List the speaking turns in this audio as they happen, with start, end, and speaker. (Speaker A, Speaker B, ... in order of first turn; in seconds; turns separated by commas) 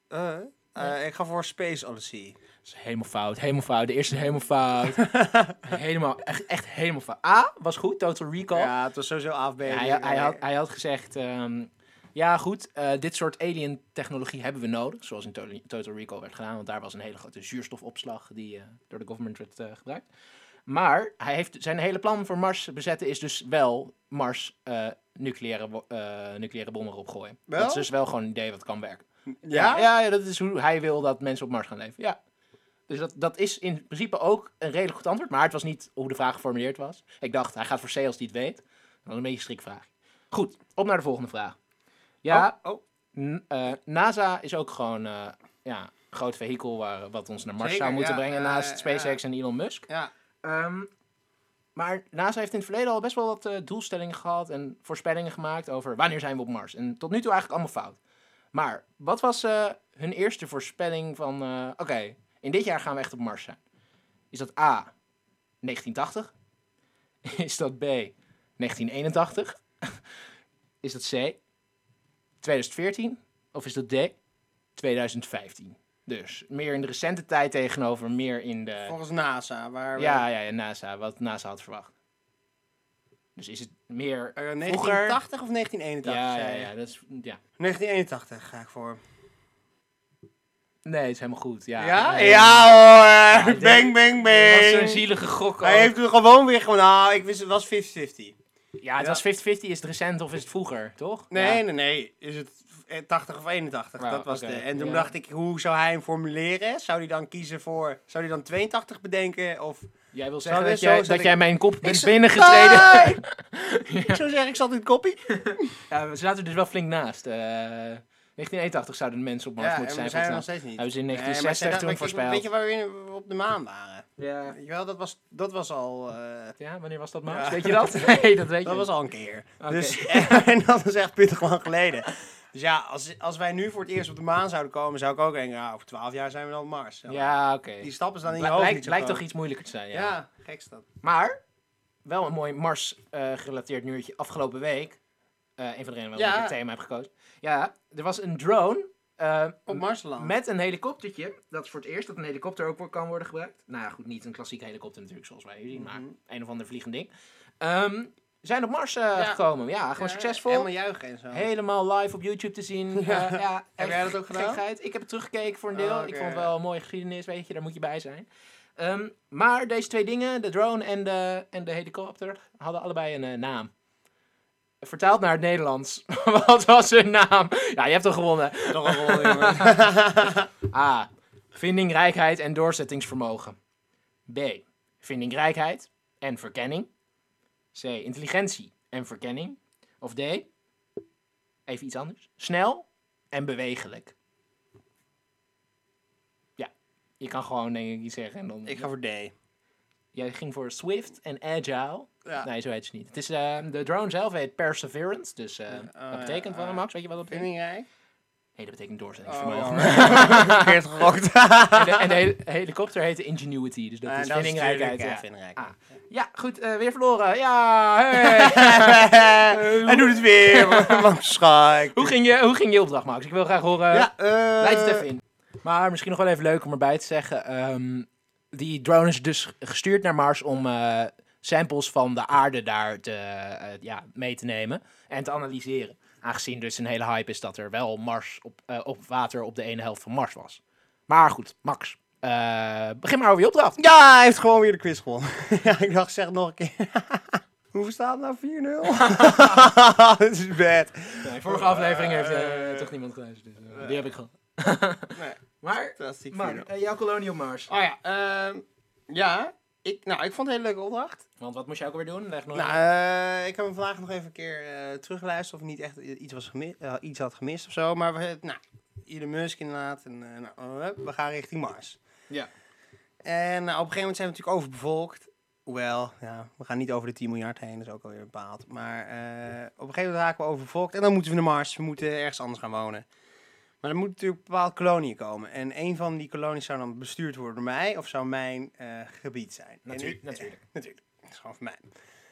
Speaker A: 0.1-2.4, Speaker B: 2.6-5.1, Speaker A: 5.0-5.7, Speaker B: 5.6-8.7, Speaker A: 8.5-10.4, Speaker B: 9.7-20.1, Speaker B: 20.7-32.2, Speaker A: 27.5-27.9, Speaker A: 29.4-29.9, Speaker B: 32.9-41.6, Speaker B: 42.2-42.5, Speaker A: 42.3-42.8, Speaker B: 43.1-49.9, Speaker A: 47.6-49.2, Speaker B: 50.4-50.9, Speaker B: 51.8-58.0, Speaker B: 58.5-63.6, Speaker B: 64.3-64.9, Speaker B: 65.6-66.3, Speaker B: 67.2-70.0, Speaker B: 70.8-71.4, Speaker B: 72.4-74.2, Speaker B: 74.8-79.0, Speaker A: 78.9-80.2, Speaker B: 80.0-81.9, Speaker B: 83.4-85.2, Speaker A: 84.4-86.7, Speaker B: 86.0-87.4, Speaker A: 87.6-89.0, Speaker B: 90.8-92.7, Speaker A: 91.8-95.1, Speaker B: 93.3-96.0, Speaker A: 95.6-98.4, Speaker B: 98.8-101.6, Speaker A: 101.3-109.9, Speaker B: 104.0-105.1, Speaker B: 110.1-114.2, Speaker A: 110.4-113.2, Speaker A: 114.0-115.8, Speaker B: 115.3-122.4, Speaker A: 119.6-126.6, Speaker B: 124.2-124.6, Speaker B: 126.6-128.9, Speaker A: 127.3-139.2, Speaker B: 129.6-130.4, Speaker B: 137.1-140.2, Speaker A: 139.9-140.8, Speaker B: 141.0-141.4, Speaker B: 142.1-145.0, Speaker B: 145.6-157.1, Speaker A: 146.2-146.6, Speaker A: 149.7-150.3, Speaker A: 155.7-156.1, Speaker B: 157.6-160.7, Speaker A: 160.0-161.5, Speaker B: 161.3-173.7, Speaker A: 163.0-164.6, Speaker A: 165.7-166.5, Speaker B: 174.8-183.6, Speaker A: 178.7-180.5, Speaker B: 184.3-186.9, Speaker B: 187.7-190.5, Speaker B: 191.7-194.1, Speaker B: 196.6-198.9, Speaker A: 198.7-199.3, Speaker B: 200.1-207.5, Speaker A: 205.7-207.9, Speaker B: 208.6-210.8, Speaker A: 209.2-212.2, Speaker B: 211.7-221.1, Speaker A: 214.1-215.6, Speaker A: 218.2-222.2, Speaker B: 221.8-243.8, Speaker A: 223.9-225.1, Speaker A: 243.8-252.9, Speaker B: 248.9-249.7, Speaker B: 251.2-257.7, Speaker A: 253.8-254.0, Speaker A: 255.2-255.4, Speaker A: 256.0-256.7, Speaker A: 257.7-261.2, Speaker B: 261.4-262.8, Speaker A: 262.5-272.0, Speaker A: 273.2-283.1, Speaker A: 283.8-291.9, Speaker B: 289.9-290.6